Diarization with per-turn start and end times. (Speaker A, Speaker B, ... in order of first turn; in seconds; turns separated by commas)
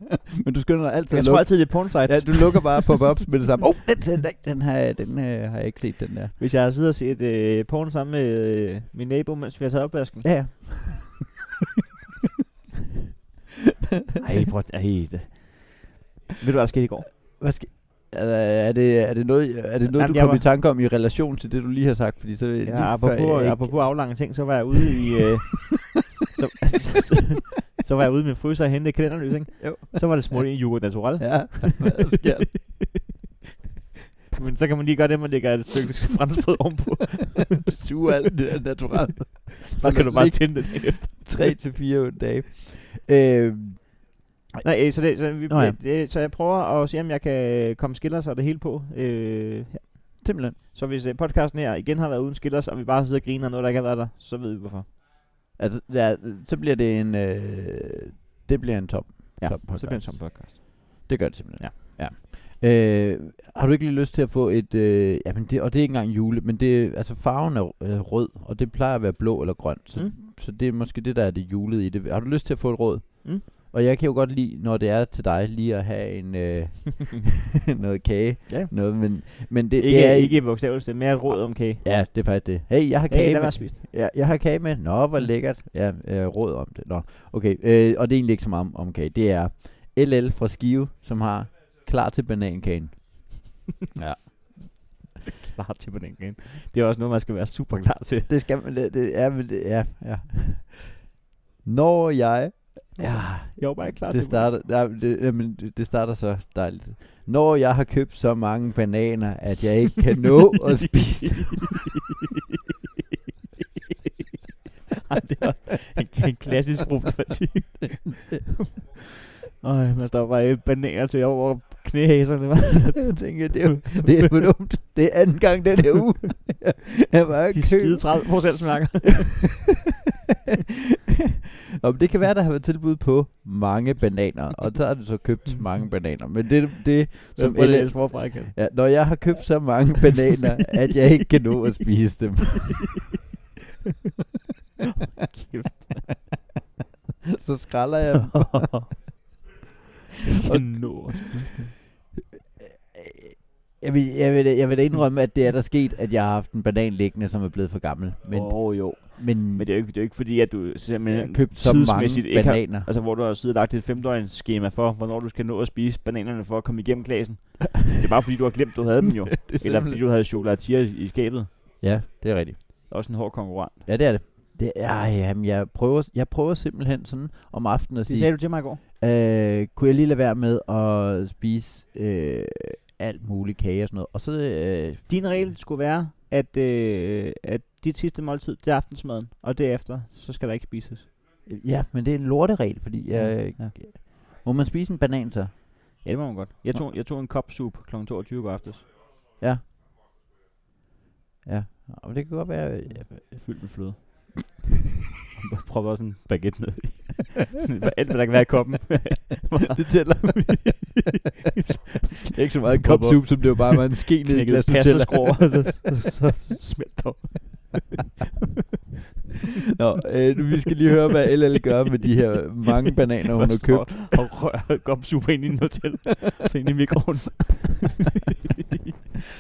Speaker A: 0.4-6.3, Speaker B: 1.1-3.1, Speaker B: 6.4-10.3, Speaker A: 10.2-11.3, Speaker B: 14.2-17.1, Speaker A: 17.4-24.1, Speaker B: 19.9-20.4, Speaker B: 22.6-32.2, Speaker A: 29.6-30.4, Speaker A: 31.2-32.9, Speaker B: 34.3-37.6, Speaker A: 37.6-43.9, Speaker B: 39.8-41.5, Speaker B: 44.6-54.9, Speaker A: 45.5-45.8, Speaker A: 50.2-50.6, Speaker A: 55.6-60.4, Speaker B: 59.4-61.8, Speaker A: 61.1-80.6, Speaker B: 78.5-81.9, Speaker A: 81.8-94.8, Speaker B: 83.1-83.8, Speaker B: 95.4-98.3, Speaker A: 98.3-101.0, Speaker A: 101.6-111.8, Speaker B: 103.0-104.5, Speaker B: 110.8-112.0, Speaker B: 115.0-118.8, Speaker B: 119.6-124.3, Speaker A: 123.0-128.3, Speaker B: 127.5-129.6, Speaker A: 131.8-142.9, Speaker B: 137.3-138.6, Speaker B: 145.1-146.1, Speaker A: 147.3-148.7, Speaker B: 148.2-148.9, Speaker B: 150.4-151.7, Speaker A: 150.4-151.7, Speaker A: 152.7-159.7, Speaker B: 158.3-171.5, Speaker A: 161.1-162.9, Speaker A: 169.3-170.0, Speaker A: 171.8-172.6, Speaker B: 172.9-173.8, Speaker A: 173.8-185.1, Speaker B: 178.1-178.8, Speaker B: 185.1-191.1, Speaker A: 191.5-195.6, Speaker B: 193.1-193.8, Speaker B: 196.0-198.9, Speaker A: 199.4-199.7, Speaker A: 201.4-203.2, Speaker B: 202.9-204.1, Speaker B: 205.3-218.0, Speaker A: 209.7-210.9, Speaker A: 212.2-215.8, Speaker A: 219.8-224.2, Speaker B: 223.3-228.2